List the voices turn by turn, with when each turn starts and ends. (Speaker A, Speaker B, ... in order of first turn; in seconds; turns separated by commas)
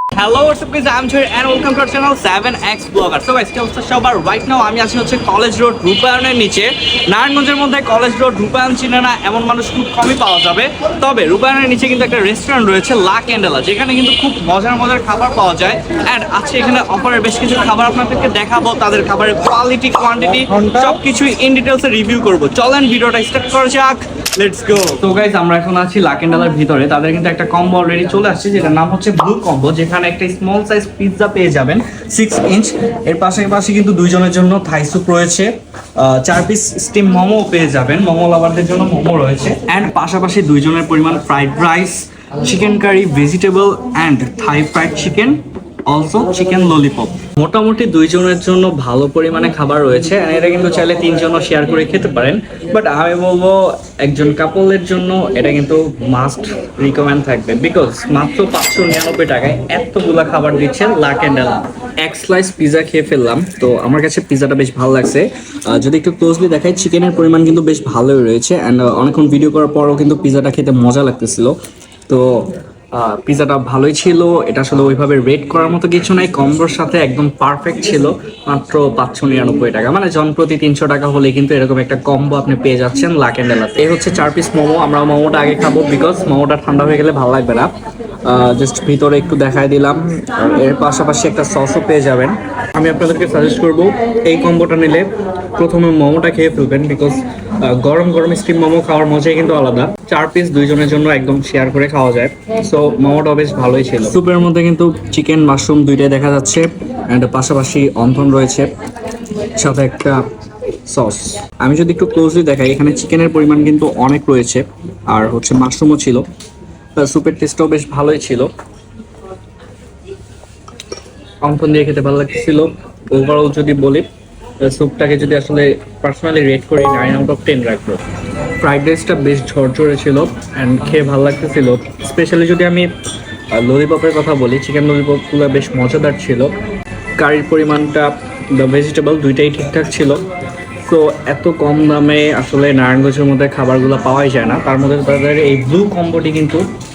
Speaker A: 0.1-71.5, Speaker A: 72.1-87.7, Speaker A: 88.2-108.7, Speaker A: 109.5-110.2, Speaker A: 110.8-116.2, Speaker A: 117.0-118.5, Speaker A: 121.4-124.1, Speaker A: 124.6-128.0, Speaker A: 128.6-132.9, Speaker A: 133.5-136.6, Speaker A: 137.2-140.2, Speaker A: 140.8-146.7